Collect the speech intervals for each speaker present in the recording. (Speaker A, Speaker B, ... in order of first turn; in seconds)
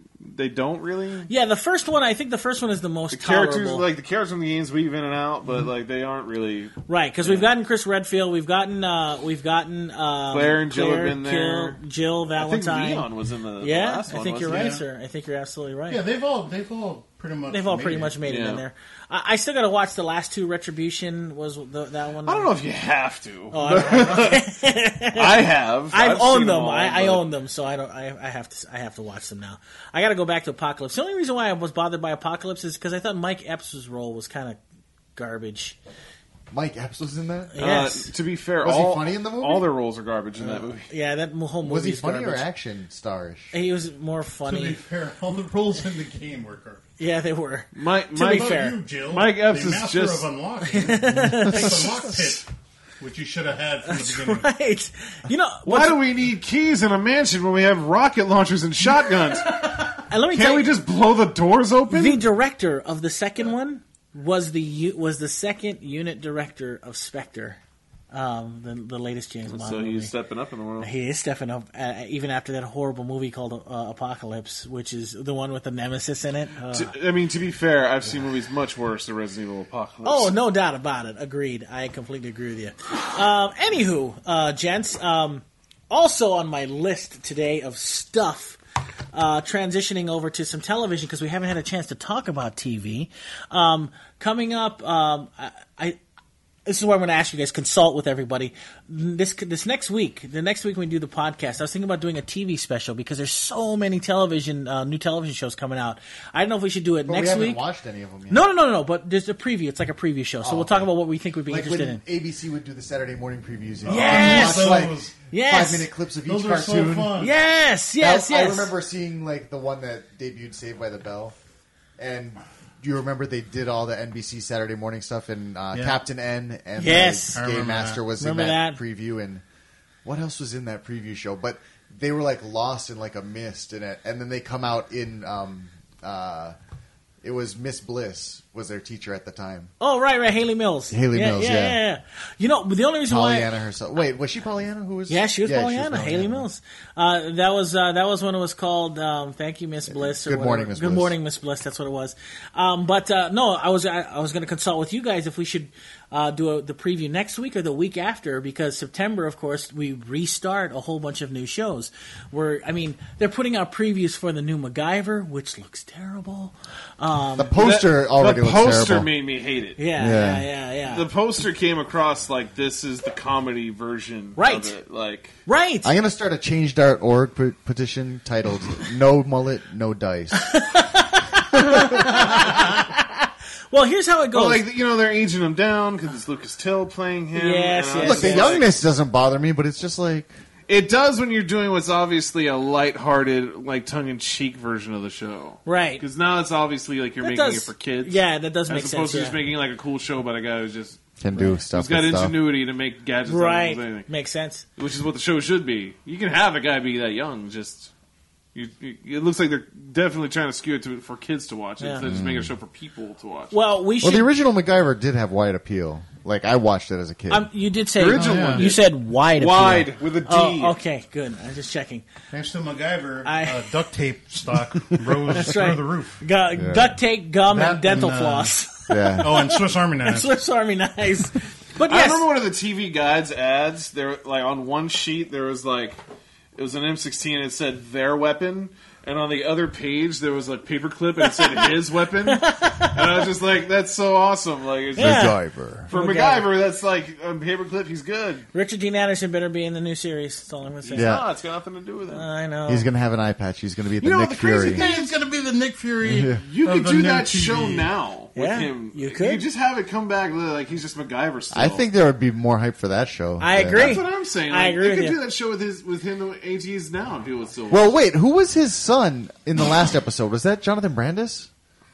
Speaker A: 0.2-1.3, 3.1-7.5, 10.3-11.8, 12.4-14.7, 18.2-18.6, 22.2-24.5, 25.1-27.2, 37.6-40.9, 47.7-50.3, 55.6-59.7, 60.3-62.2, 69.5-70.9, 76.7-80.3, 167.6-169.8, 170.9-175.3, 184.3-188.7, 190.7-201.0, 201.6-204.1, 204.8-207.9, 208.5-213.5, 218.0-220.8, 231.9-236.0, 236.6-245.3, 245.9-248.4, 250.8-252.3, 254.6-255.1, 256.4-261.8, 263.7-267.9
Speaker B: 1.3-3.8, 6.9-13.1, 13.6-16.0, 17.5-22.5, 23.5-34.6, 35.1-35.8, 37.5-38.1, 40.9-42.5, 43.5-44.8, 47.0-48.8, 50.7-51.9, 53.8-56.0, 60.1-60.7, 61.9-67.6, 68.1-70.1, 70.8-76.9, 80.0-88.6, 89.1-96.0, 96.7-107.6, 108.3-112.0, 113.9-115.9, 117.2-118.7, 126.8-127.4, 128.2-128.8, 139.8-143.5, 145.1-167.6, 169.8-171.1, 174.4-174.7, 175.4-175.9, 180.3-184.6, 187.3-188.6, 195.6-196.0, 197.2-199.4, 203.2-204.6, 211.8-212.1, 213.5-214.3, 217.3-222.1, 223.2-223.7, 225.3-232.2, 241.2-241.7, 242.3-243.2, 245.0-245.4, 245.9-246.5, 248.5-251.2, 252.1-252.9, 258.3-259.4, 263.4-265.2
Speaker C: 14.4-14.8, 15.9-18.2, 44.5-46.8, 48.2-52.5, 53.0-54.5, 113.8-115.2, 116.2-117.3, 125.7-126.0, 127.3-128.0, 218.1-218.7, 222.3-226.2, 227.5-228.6, 229.2-230.3, 254.0-257.9
Speaker D: 36.5-37.5, 38.6-39.7, 40.4-40.7, 41.6-43.5, 107.0-108.4, 110.4-110.9, 111.5-117.2, 118.0-121.3, 122.0-129.4, 130.0-136.6, 137.2-139.7, 140.9-141.8, 143.1-146.4, 149.9-151.1, 167.4-169.1, 170.0-170.5, 175.8-180.6, 181.5-182.6, 188.0-190.3, 201.2-202.4, 212.0-212.5, 214.0-217.5, 226.5-226.9, 228.9-229.3, 245.0-245.9, 250.9-251.2, 252.7-254.9, 256.0-256.4, 261.5-264.0, 267.7-271.5